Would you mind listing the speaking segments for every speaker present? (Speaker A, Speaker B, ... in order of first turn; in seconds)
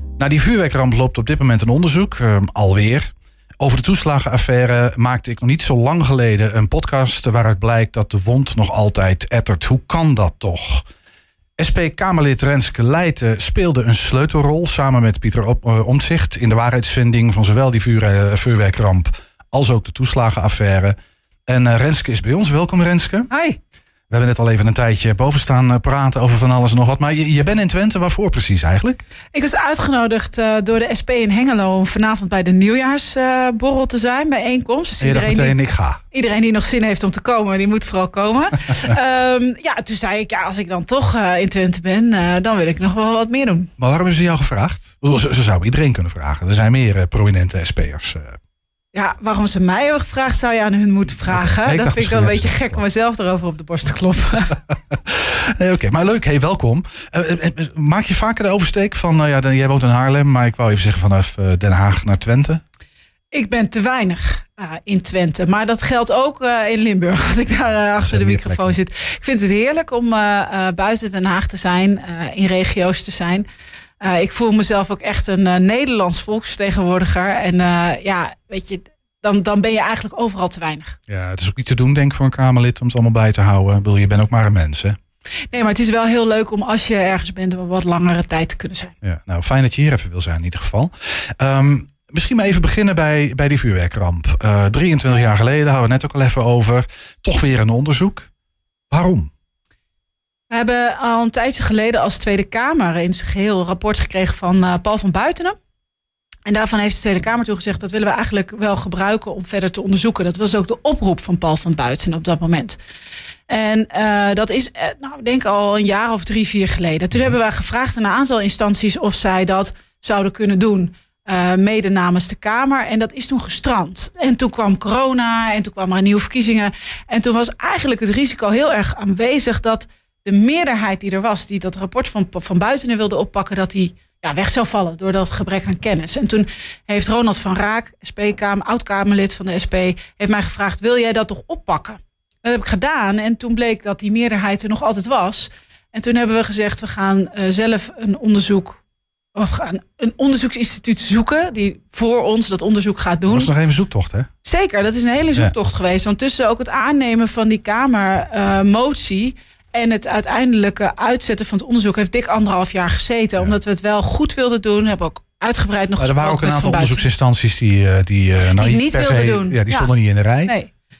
Speaker A: 0.2-10.8, 11.6-21.0, 21.5-23.3, 24.1-29.0, 35.0-36.0, 43.8-48.4, 51.3-52.8, 54.7-62.6, 68.0-68.8, 81.1-85.0, 89.0-98.3, 98.9-99.3, 153.3-154.3, 166.0-170.5
Speaker B: 23.3-23.6, 29.3-35.6, 36.1-43.7, 48.9-54.6, 63.3-73.5, 74.0-81.0, 85.5-89.0, 100.5-105.6, 106.5-112.8, 113.5-148.8, 149.3-153.5, 154.4-167.1, 168.5-169.9, 170.4-170.7